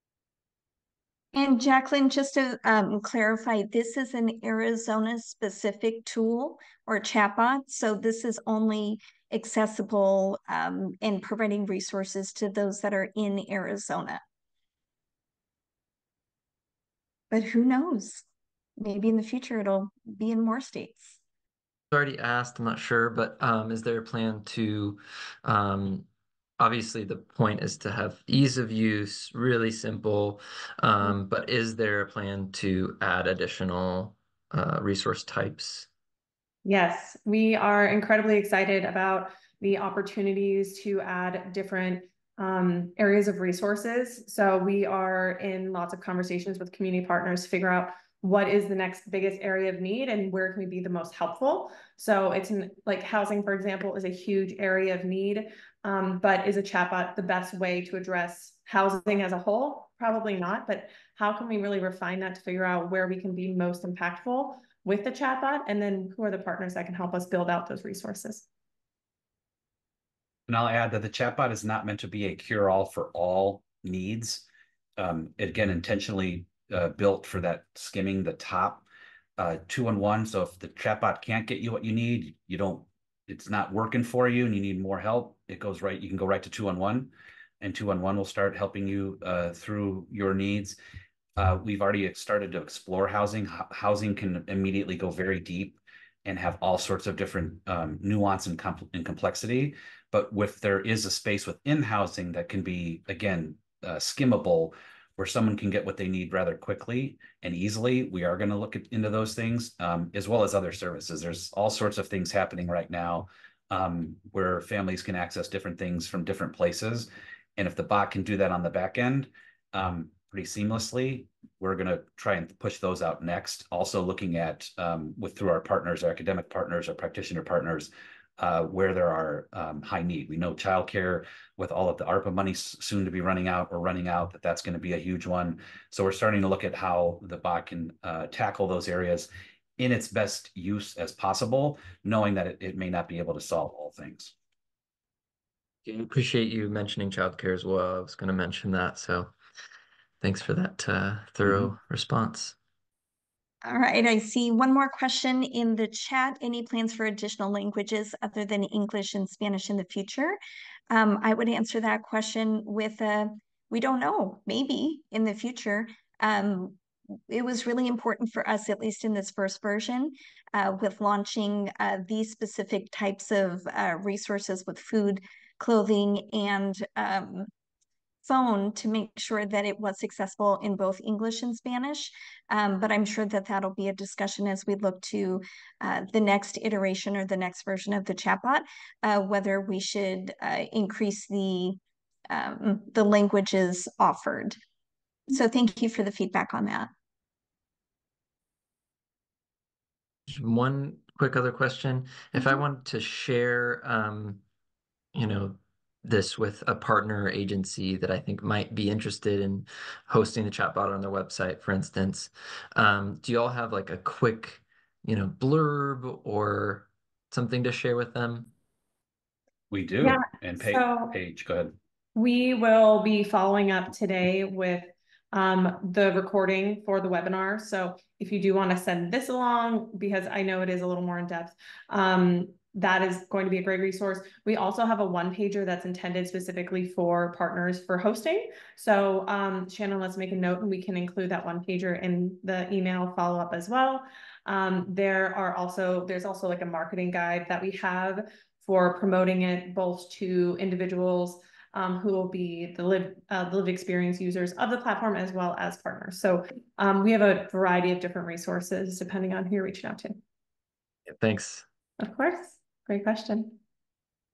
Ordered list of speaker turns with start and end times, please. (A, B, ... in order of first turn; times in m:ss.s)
0:01.3-0:14.2 A
0:17.3-0:18.2 A
0:18.8-0:21.2 A
0:21.9-0:26.1 B
0:26.6-0:35.9 B
0:36.6-1:08.4 C
1:10.5-1:14.5 D
1:15.0-1:18.9 D
1:19.4-1:30.8 D
1:31.4-2:24.3 D
2:25.8-2:29.3 B
2:30.2-2:32.6 B
2:33.6-2:40.4 A
2:40.9-2:46.8 A
2:47.3-2:57.5 A
2:58.2-3:11.8 A
3:12.3-3:14.6 A
3:15.3-3:16.9 A
3:20.3-3:24.4 B
3:25.1-3:38.5 B
3:39.7-3:41.8 D
3:40.0-3:41.2 C
3:42.2-4:20.2 C
4:21.1-4:21.6 B
4:22.0-4:23.6 C